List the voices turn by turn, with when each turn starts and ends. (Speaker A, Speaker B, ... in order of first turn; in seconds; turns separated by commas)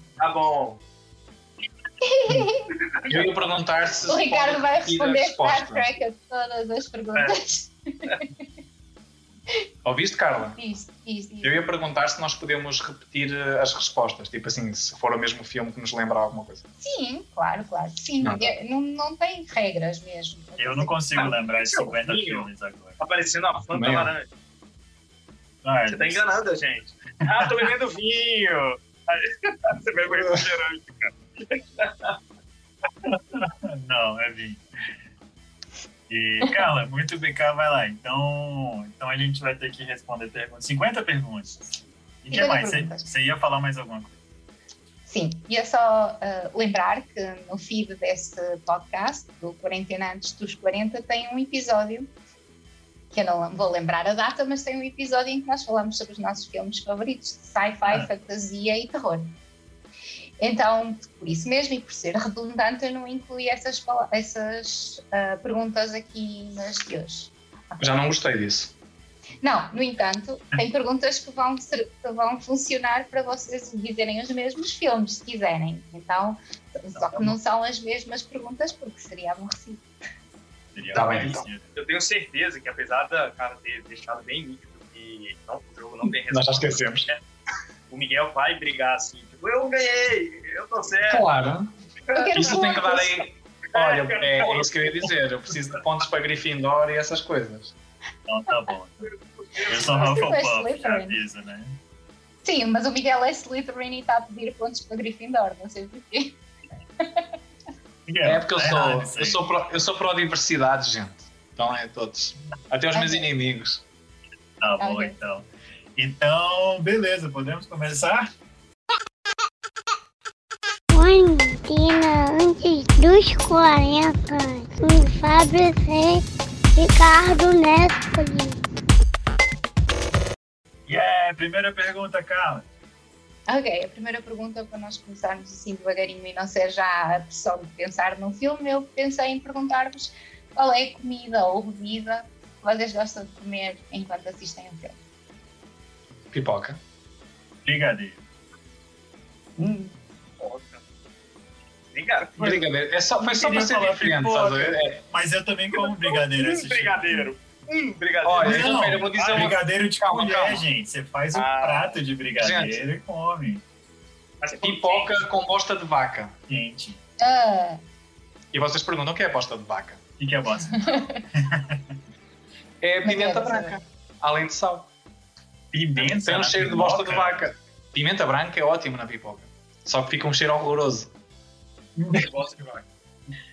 Speaker A: 0.2-0.8, Speaker B: 2.0-2.7, Speaker A: 2.8-3.5, Speaker C: 3.1-5.9, Speaker B: 4.0-8.3, Speaker C: 9.8-10.6, Speaker B: 10.4-11.7, Speaker C: 11.4-16.6, Speaker B: 16.8-20.9, Speaker C: 18.2-18.5, Speaker D: 20.6-23.0, Speaker A: 21.1-22.5, Speaker A: 23.0-24.3, Speaker C: 23.7-24.1, Speaker D: 25.6-26.3, Speaker A: 25.9-32.2, Speaker D: 33.0-34.6, Speaker D: 36.1-41.7, Speaker D: 42.2-44.1, Speaker B: 42.3-43.1, Speaker B: 45.1-52.1, Speaker B: 53.1-59.3, Speaker B: 60.4-67.9, Speaker C: 67.8-68.7, Speaker B: 69.4-79.8, Speaker D: 76.9-77.4, Speaker D: 80.7-81.7, Speaker C: 80.9-81.5, Speaker A: 81.7-87.2, Speaker C: 86.0-87.1, Speaker A: 87.9-91.3, Speaker C: 91.1-91.7, Speaker A: 92.0-92.6, Speaker B: 92.1-93.2, Speaker C: 92.3-97.7, Speaker A: 93.7-95.0, Speaker D: 98.3-99.1, Speaker A: 99.4-100.2, Speaker D: 99.6-101.8, Speaker B: 99.7-101.2, Speaker B: 102.4-106.4, Speaker B: 107.0-107.3, Speaker D: 108.1-109.4, Speaker C: 108.2-113.8, Speaker B: 112.9-113.3, Speaker D: 114.6-118.3, Speaker B: 114.8-115.1, Speaker E: 120.9-126.2, Speaker E: 126.7-128.6, Speaker D: 130.9-132.7, Speaker B: 133.5-145.0, Speaker C: 146.3-146.8, Speaker D: 147.6-148.2, Speaker D: 149.6-149.9, Speaker A: 150.4-150.8, Speaker A: 151.9-152.3, Speaker C: 152.4-155.0, Speaker D: 153.2-157.3, Speaker A: 155.8-159.5, Speaker C: 158.2-160.7, Speaker D: 158.4-163.6, Speaker A: 161.3-162.0, Speaker C: 162.4-162.8, Speaker A: 164.4-165.2, Speaker C: 164.6-166.4, Speaker D: 166.5-167.0, Speaker B: 167.2-167.8, Speaker C: 168.5-170.0, Speaker D: 170.2-171.8, Speaker B: 170.7-171.2, Speaker C: 172.8-174.9, Speaker B: 173.0-173.8, Speaker D: 175.7-177.5, Speaker C: 176.0-181.1, Speaker D: 181.9-182.3, Speaker A: 182.1-182.8